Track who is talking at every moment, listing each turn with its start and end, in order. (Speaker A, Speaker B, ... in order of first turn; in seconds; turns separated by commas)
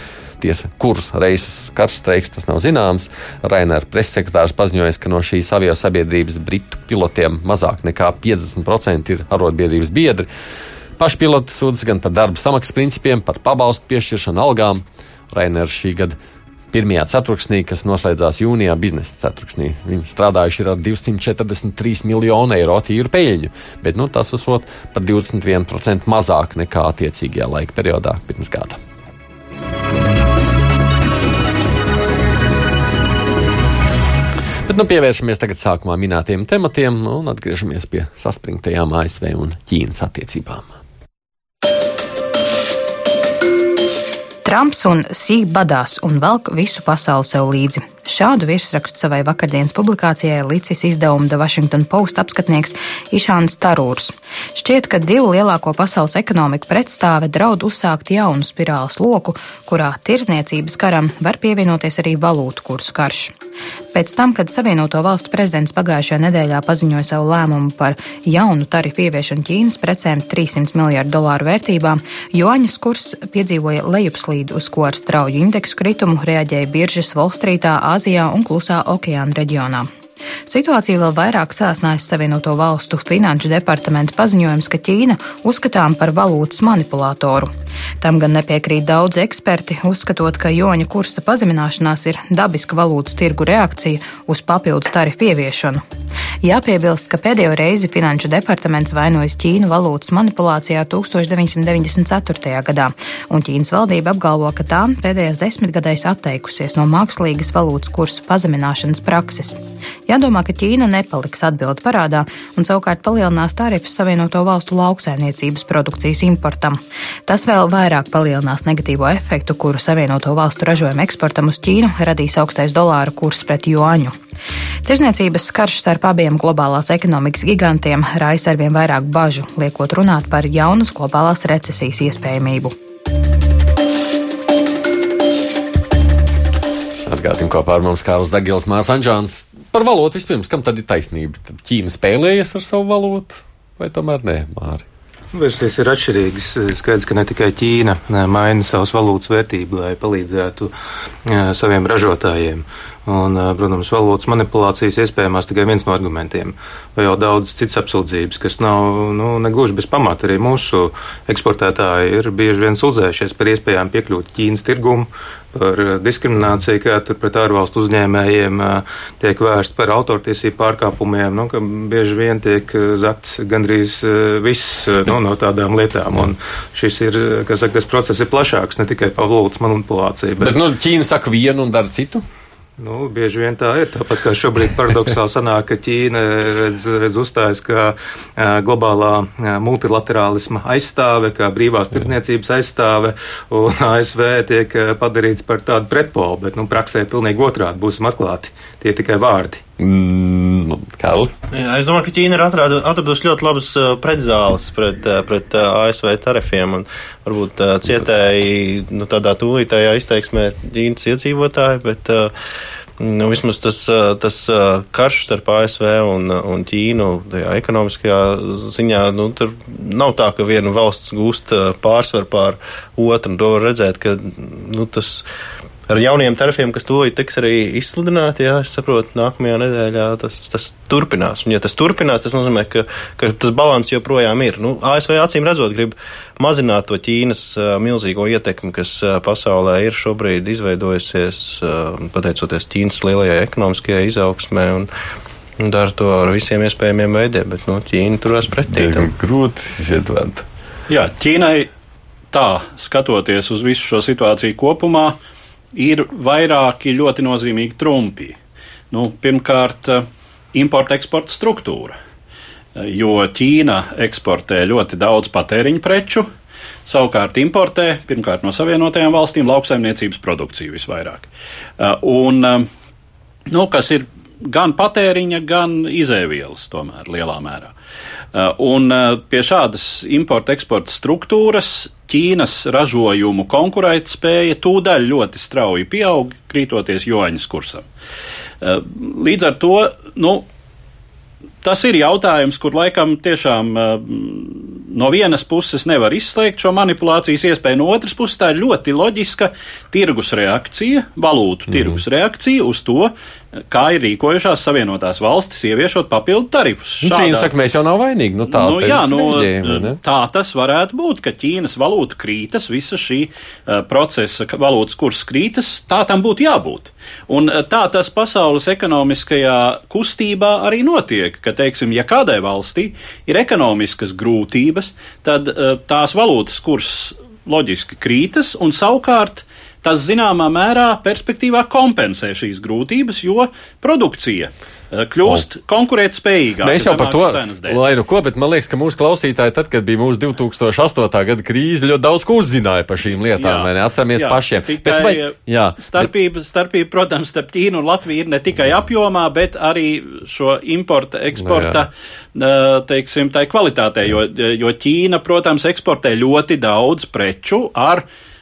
Speaker A: 0.4-10.3, Speaker A: 11.0-16.2, Speaker A: 16.7-28.8, Speaker A: 34.6-40.7, Speaker B: 44.4-63.3, Speaker B: 63.9-79.9, Speaker B: 80.5-95.8, Speaker B: 96.4-124.1, Speaker B: 124.8-132.7, Speaker A: 137.0-144.8, Speaker C: 145.3-150.7, Speaker C: 151.2-180.6, Speaker A: 180.4-182.2, Speaker C: 182.8-199.6, Speaker A: 199.8-201.3, Speaker D: 201.5-212.3, Speaker D: 213.0-225.2, Speaker D: 225.9-244.9, Speaker D: 245.6-249.1, Speaker A: 248.7-250.4, Speaker E: 250.9-251.7, Speaker E: 252.3-255.2, Speaker E: 255.7-258.4, Speaker E: 258.9-261.9, Speaker E: 262.8-266.3, Speaker E: 266.9-272.7, Speaker E: 273.5-277.7, Speaker E: 278.3-287.8, Speaker E: 288.6-290.4, Speaker E: 291.6-303.1, Speaker E: 303.7-307.5, Speaker A: 307.0-310.0, Speaker E: 308.5-337.8, Speaker A: 336.6-346.1, Speaker E: 343.4-358.0, Speaker A: 351.4-351.8